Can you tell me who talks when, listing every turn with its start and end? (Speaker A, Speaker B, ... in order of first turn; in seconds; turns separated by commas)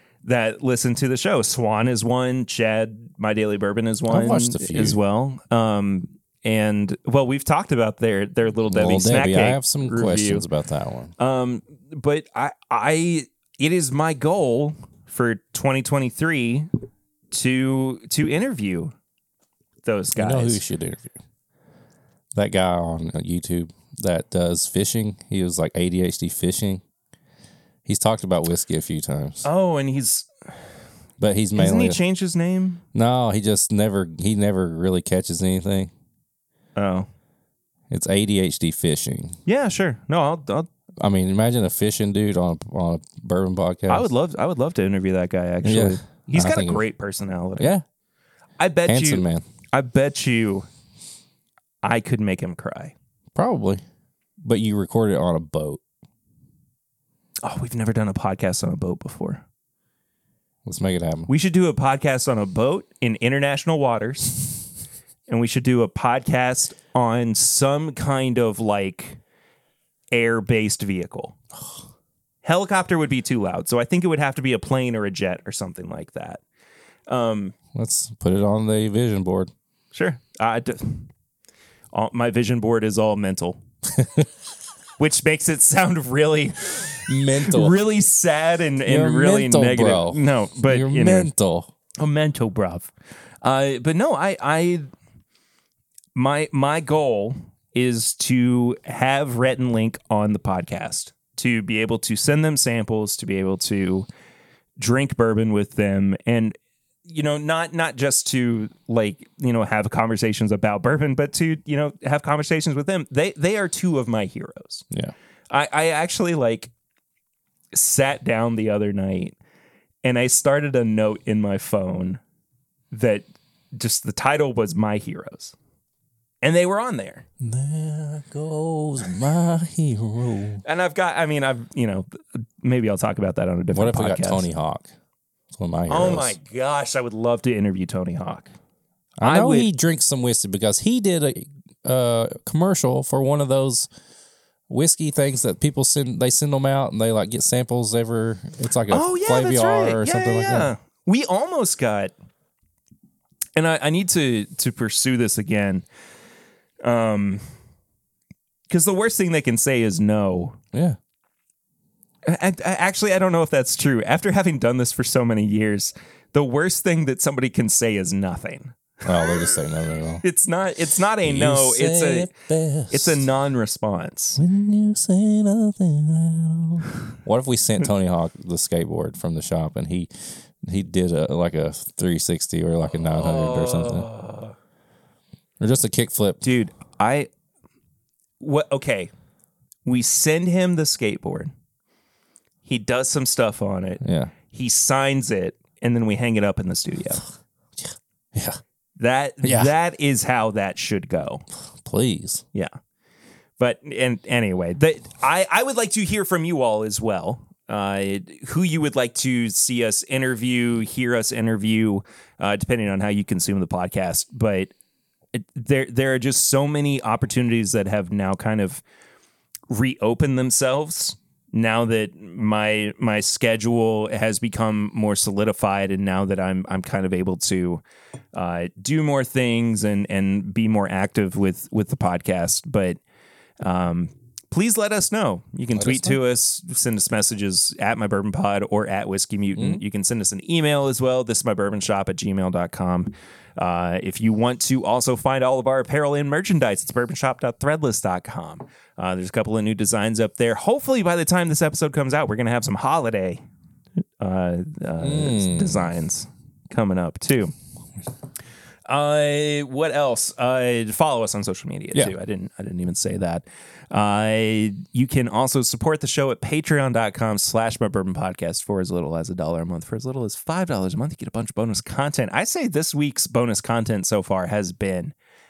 Speaker A: 0.2-10.4, Speaker B: 4.1-5.0, Speaker B: 8.7-11.1, Speaker A: 11.2-16.7, Speaker A: 17.3-18.9, Speaker A: 19.8-20.6, Speaker B: 20.1-21.1, Speaker B: 22.4-26.8, Speaker B: 27.8-29.4, Speaker A: 29.4-30.3, Speaker B: 31.2-32.0, Speaker A: 31.6-32.8, Speaker B: 32.9-35.9, Speaker A: 36.8-37.1, Speaker B: 37.9-39.4, Speaker A: 39.5-40.7, Speaker B: 41.0-44.1, Speaker A: 43.9-47.7, Speaker B: 45.6-46.8, Speaker B: 47.6-47.8, Speaker A: 48.6-50.7, Speaker B: 48.9-49.5, Speaker A: 51.8-52.9, Speaker B: 53.3-53.8, Speaker B: 54.4-55.8, Speaker A: 57.4-59.4, Speaker B: 60.6-61.3, Speaker A: 61.3-64.6, Speaker A: 65.3-69.2, Speaker A: 70.1-71.4, Speaker A: 72.4-76.4, Speaker A: 77.1-77.5, Speaker B: 77.7-79.5, Speaker A: 79.9-81.1, Speaker A: 81.9-83.6, Speaker B: 84.0-84.2, Speaker A: 85.0-91.3, Speaker B: 87.0-87.8, Speaker B: 88.8-91.7, Speaker A: 92.0-92.9, Speaker A: 93.4-94.9, Speaker A: 96.1-104.1, Speaker A: 104.8-114.8, Speaker A: 115.5-116.7, Speaker A: 117.7-119.4, Speaker A: 120.0-122.2, Speaker A: 122.9-125.5, Speaker A: 126.4-127.2, Speaker B: 127.4-130.6, Speaker A: 130.6-134.5, Speaker B: 133.7-134.9, Speaker B: 135.5-136.3, Speaker A: 135.9-138.5, Speaker B: 139.2-143.9, Speaker A: 139.2-139.7, Speaker B: 144.7-150.7, Speaker A: 148.9-152.1, Speaker A: 153.6-155.8, Speaker A: 156.8-157.4, Speaker A: 158.7-160.6, Speaker B: 160.7-161.0, Speaker A: 162.2-169.6, Speaker B: 169.0-170.2, Speaker A: 170.2-172.3, Speaker B: 171.2-173.2, Speaker A: 172.9-174.4, Speaker B: 174.4-184.1, Speaker A: 183.0-184.5, Speaker B: 185.6-186.4, Speaker A: 186.4-187.3, Speaker A: 188.4-189.1, Speaker A: 189.8-191.5, Speaker A: 192.7-197.3, Speaker B: 194.0-194.3, Speaker B: 197.8-198.6, Speaker A: 199.0-201.4, Speaker B: 199.4-199.7, Speaker B: 201.7-202.4, Speaker A: 203.6-214.7, Speaker A: 215.3-218.8, Speaker A: 219.7-227.8, Speaker A: 228.3-233.0, Speaker A: 233.6-253.4, Speaker B: 235.8-236.2, Speaker B: 239.6-239.8, Speaker A: 254.2-257.5, Speaker B: 255.0-255.9, Speaker A: 258.9-275.1